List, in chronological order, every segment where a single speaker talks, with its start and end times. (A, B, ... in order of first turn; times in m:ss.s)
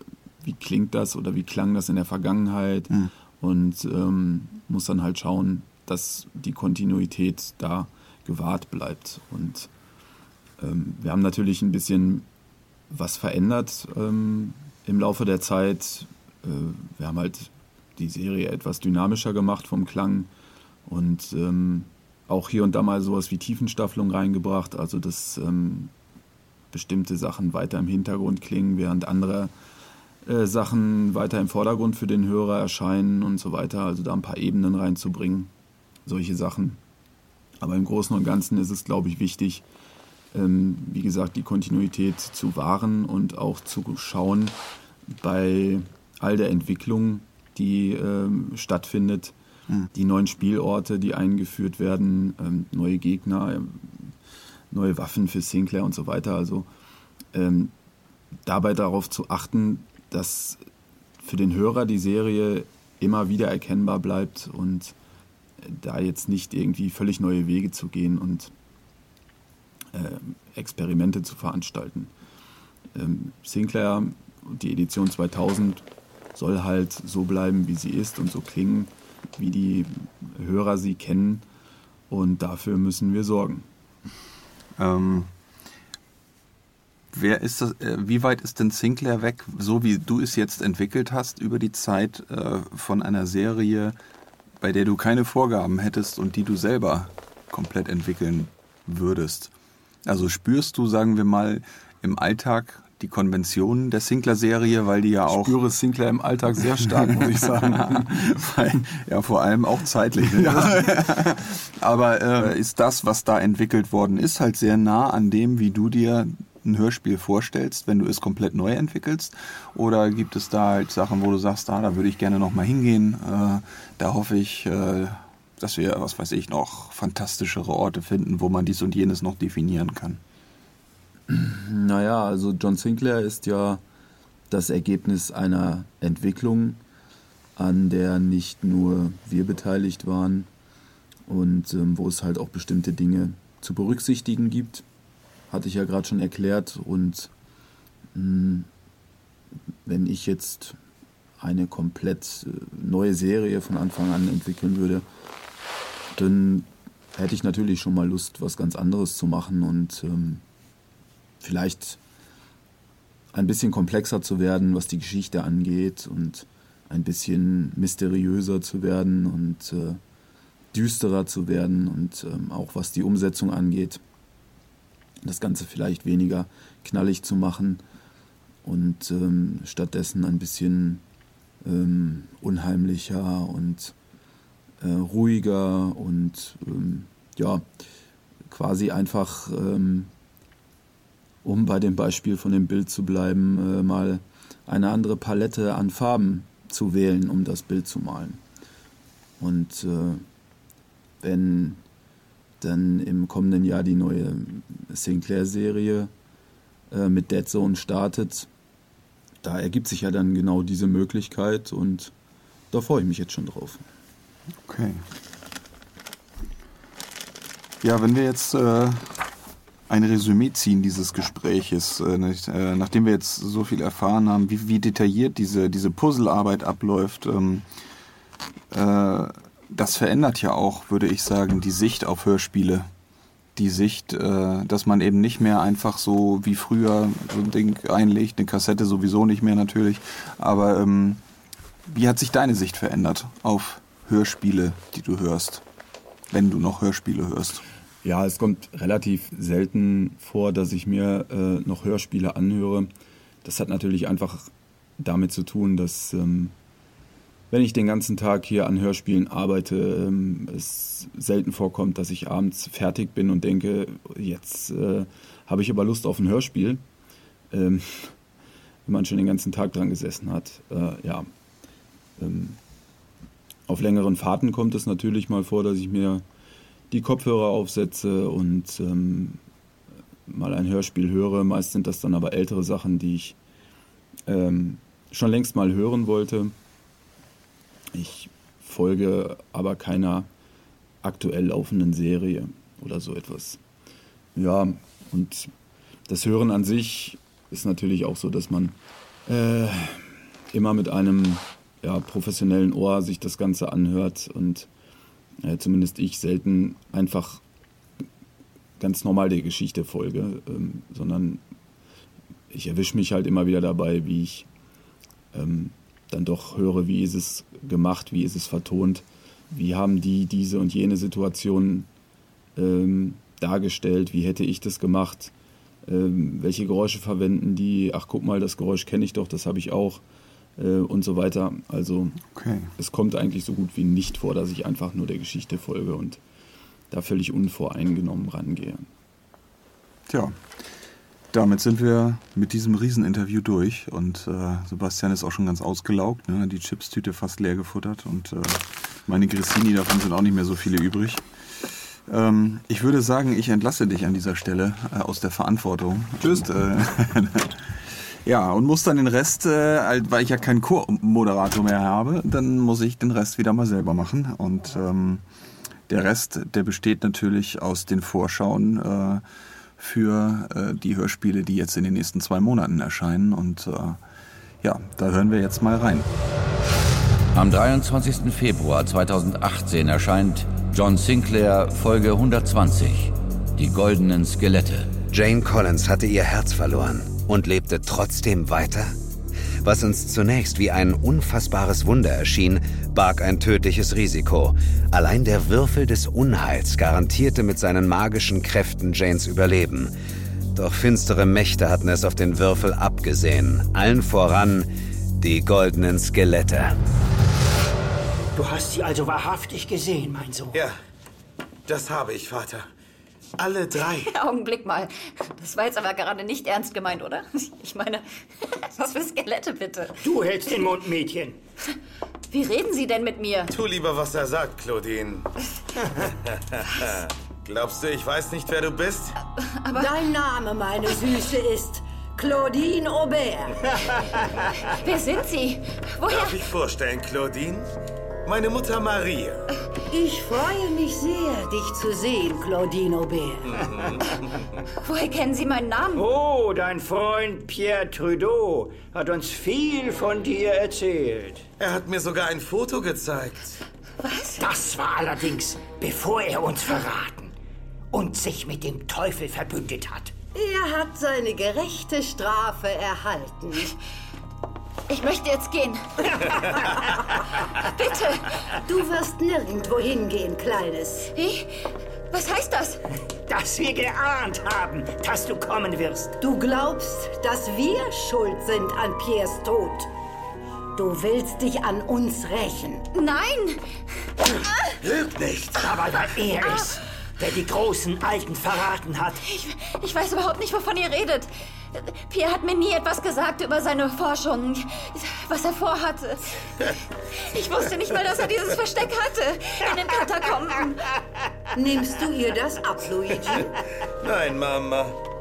0:00.4-0:09.7 A
0:10.6-0:12.3 A
0:12.9-0:20.3 A
0:20.9-0:25.9 A
0:26.7-0:29.5 A
0:30.3-0:35.5 A
0:36.1-0:36.8 A
0:37.6-0:39.6 A
0:40.3-0:44.6 A
0:45.1-0:49.3 A
0:49.9-0:54.1 A
0:54.7-0:56.7 A
0:57.3-0:57.7 A
0:58.4-1:00.6 A
1:01.2-1:05.0 A
1:05.6-1:08.5 A
1:09.9-1:12.1 A
1:12.9-1:21.4 A
1:22.1-1:23.6 A
1:24.8-1:25.3 B
1:27.1-1:34.0 B
1:34.6-1:39.5 B
1:40.0-1:45.6 B
1:45.3-1:48.4 A
1:46.8-2:10.2 B
1:50.3-1:51.0 A
2:11.3-2:13.8 A
2:14.5-2:16.8 A
2:17.6-2:20.5 A
2:21.3-2:24.8 A
2:25.5-2:27.3 A
2:28.1-2:28.7 A
2:29.9-2:30.8 A
2:31.4-2:35.0 A
2:36.2-2:40.4 A
2:41.4-2:42.0 A
2:43.3-2:50.0 A
2:50.7-2:54.0 A
2:55.2-2:57.8 A
2:58.6-3:01.0 A
3:01.6-3:03.9 A
3:04.8-3:07.6 A
3:08.5-3:10.1 A
3:11.4-3:18.4 A
3:19.4-3:20.2 A
3:21.2-3:21.8 A
3:22.6-3:26.1 A
3:26.9-3:28.5 A
3:29.4-3:32.1 A
3:32.7-3:33.8 A
3:34.6-3:35.0 B
3:37.8-3:39.2 B
3:39.9-3:47.6 B
3:48.7-3:52.9 B
3:53.6-4:01.2 B
4:01.9-4:05.6 B
4:06.3-4:07.6 B
4:08.0-4:12.9 A
4:13.4-4:16.5 A
4:17.5-4:26.8 A
4:27.5-4:28.2 A
4:28.9-4:31.3 A
4:32.2-4:32.6 A
4:33.7-4:36.2 A
4:36.9-4:39.4 A
4:40.3-4:43.4 A
4:44.3-4:46.5 A
4:47.9-4:50.3 A
4:51.0-4:53.6 A
4:54.4-4:55.5 A
4:56.1-4:58.8 A
4:59.3-5:04.7 A
5:05.4-5:07.4 A
5:08.8-5:11.4 A
5:12.5-5:14.5 A
5:15.3-5:21.9 A
5:22.6-5:25.3 A
5:25.9-5:30.0 A
5:30.6-5:32.2 A
5:32.3-5:32.7 B
5:32.8-5:36.2 A
5:36.9-5:38.9 A
5:40.1-5:40.4 B
5:41.3-5:57.6 B
5:56.2-5:56.4 A
5:58.2-6:05.2 B
6:05.9-6:09.2 B
6:09.8-6:14.0 B
6:14.6-6:16.1 B
6:17.3-6:24.9 C
6:25.1-6:29.0 D
6:29.6-6:39.9 D
6:40.6-6:44.7 D
6:45.2-6:46.8 D
6:48.4-6:50.7 E
6:50.5-6:50.8 F
6:51.7-6:52.7 F
6:53.4-6:54.1 F
6:54.1-6:58.1 G
6:58.6-7:00.0 G
7:00.0-7:01.4 E
7:02.3-7:03.5 G
7:03.5-7:05.3 F
7:06.0-7:09.2 F
7:09.5-7:09.9 G
7:09.7-7:14.0 H
7:13.7-7:14.5 F
7:14.8-7:16.5 G
7:16.1-7:17.7 F
7:18.2-7:19.4 F
7:19.9-7:23.6 H
7:23.5-7:24.4 F
7:24.8-7:26.1 G
7:26.0-7:31.4 E
7:31.6-7:33.6 F
7:34.0-7:34.4 G
7:34.4-7:37.4 E
7:37.9-7:40.1 E
7:40.3-7:43.8 H
7:44.9-7:46.6 G
7:47.7-7:48.4 G
7:48.6-7:51.1 H
7:51.1-7:51.5 G
7:52.1-7:52.8 G
7:53.3-7:56.2 E
7:56.2-7:59.9 H
8:00.8-8:02.9 H
8:02.9-8:03.6 G
8:04.8-8:05.7 F
8:05.6-8:09.2 E
8:09.2-8:16.4 G
8:17.2-8:20.9 G
8:21.6-8:23.6 H
8:24.0-8:25.0 F